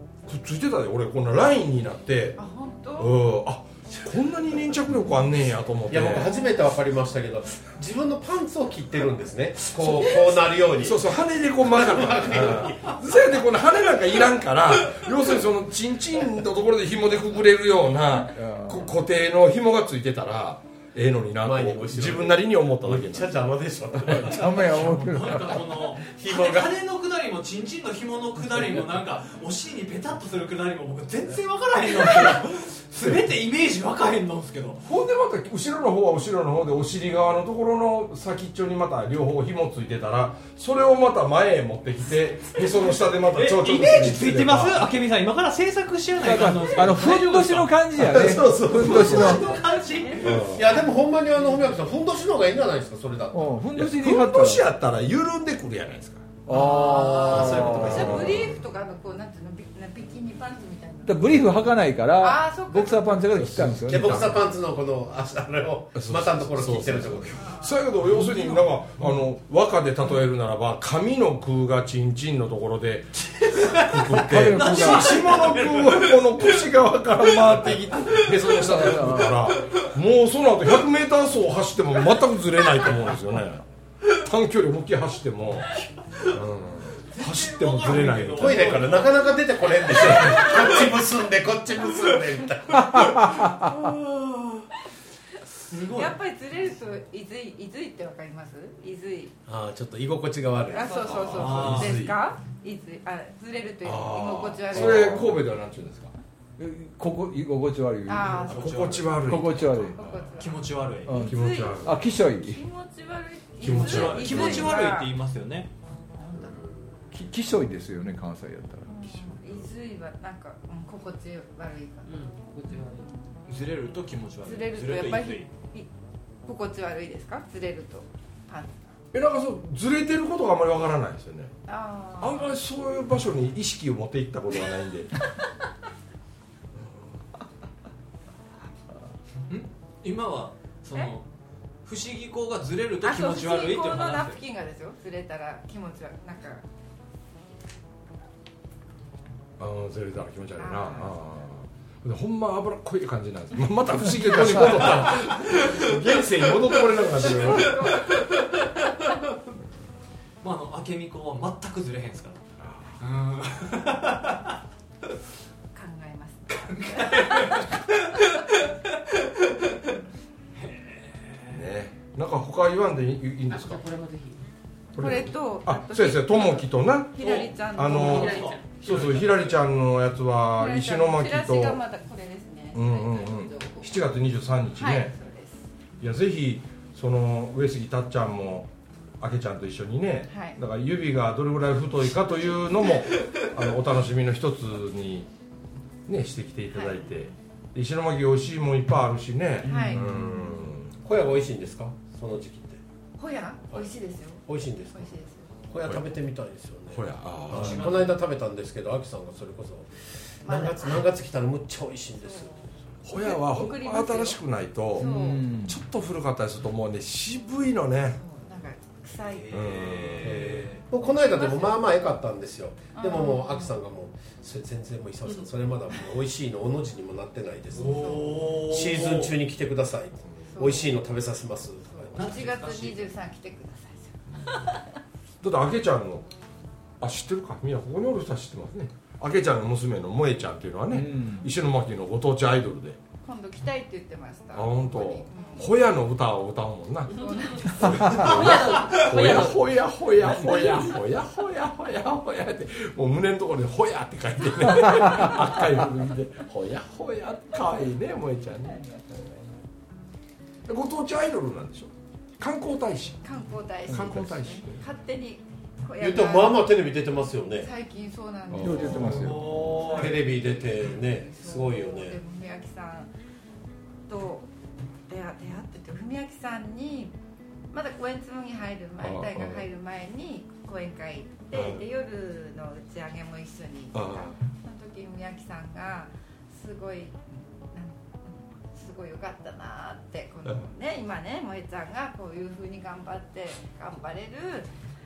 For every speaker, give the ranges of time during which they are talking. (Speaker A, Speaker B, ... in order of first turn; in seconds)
Speaker A: 0.3-2.4, 3.0-6.3, 10.8-23.4, 34.8-44.9, 48.0-49.5, 50.2-50.7, 53.8-56.4, 57.2-58.6, 63.4-64.5, 66.0-88.9, 90.0-90.5, 100.9-101.8, 103.8-106.1, 108.5-110.4, 111.2-112.0, 113.6-114.8, 129.1-131.6, 132.2-135.2, 149.6-158.1, 162.6-162.9, 171.5-173.9, 174.9-181.8, 182.7-185.2, 186.0-195.3, 196.1-201.0, 206.9-208.1, 213.1-215.2, 215.7-218.2, 219.5-220.5, 235.4-236.3, 237.0-243.0, 244.5-258.9, 260.7-263.2, 263.9-264.9, 268.6-269.4, 279.0-279.7, 281.5-281.8, 283.9-284.4
Speaker B: 2.4-3.2, 49.3-50.4, 56.5-61.4, 62.2-63.5, 67.3-68.7, 95.9-99.3, 100.7-105.4, 108.1-108.9, 110.0-115.1, 118.9-122.2, 124.4-125.9, 126.5-128.9, 131.7-132.6, 143.0-146.6, 150.6-151.2, 157.4-158.2, 165.7-167.7, 175.0-178.5, 180.6-184.1, 184.8-185.6, 190.3-190.6, 196.7-197.3, 199.6-200.1, 203.2-205.5, 210.4-211.1, 212.3-212.5, 213.1-214.4, 215.0-215.5, 218.1-219.8, 221.0-221.9, 223.0-223.8, 227.8-228.5, 230.5-231.1, 231.9-234.8, 243.2-245.7, 247.1-248.6, 263.2-266.7, 267.6-273.1, 274.1-274.5, 275.1-277.1, 277.7-294.7
Speaker C: 5.9-11.1, 11.6-13.0, 21.4-24.8, 26.0-26.8, 50.5-53.6, 56.6-58.3, 63.9-67.4, 88.4-93.2, 99.5-102.2, 201.0-202.8, 204.5-205.1, 205.7-212.7, 220.2-232.2, 266.0-267.7, 269.9-272.2
Speaker D: 18.4-18.9, 24.0-25.7, 46.1-49.5, 53.3-54.7, 56.5-58.3, 61.0-64.4, 74.2-75.3, 78.6-79.4, 92.9-93.9, 104.7-105.4, 106.6-108.5, 109.2-110.0, 111.1-112.6, 117.1-119.3, 199.8-200.2, 215.0-215.8, 240.9-241.5, 263.9-264.4, 268.6-269.9
Speaker E: 24.9-34.8, 43.3-50.7, 73.3-76.7, 77.2-78.8, 79.5-79.8, 87.1-90.9, 93.7-94.3, 95.7-96.2, 101.3-102.0, 108.2-109.2, 110.4-111.2, 113.7-115.7, 123.5-125.5, 139.5-141.2, 141.8-144.4, 155.6-159.2, 160.4-162.4, 163.0-164.5, 166.5-169.9, 170.6-171.6, 177.2-179.6, 207.5-208.1, 219.3-220.8, 227.8-229.4, 232.2-233.1, 248.1-249.0, 269.0-270.4
Speaker F: 116.2-116.7, 122.0-123.2, 173.5-174.5, 177.9-178.8, 248.0-249.8, 250.4-250.9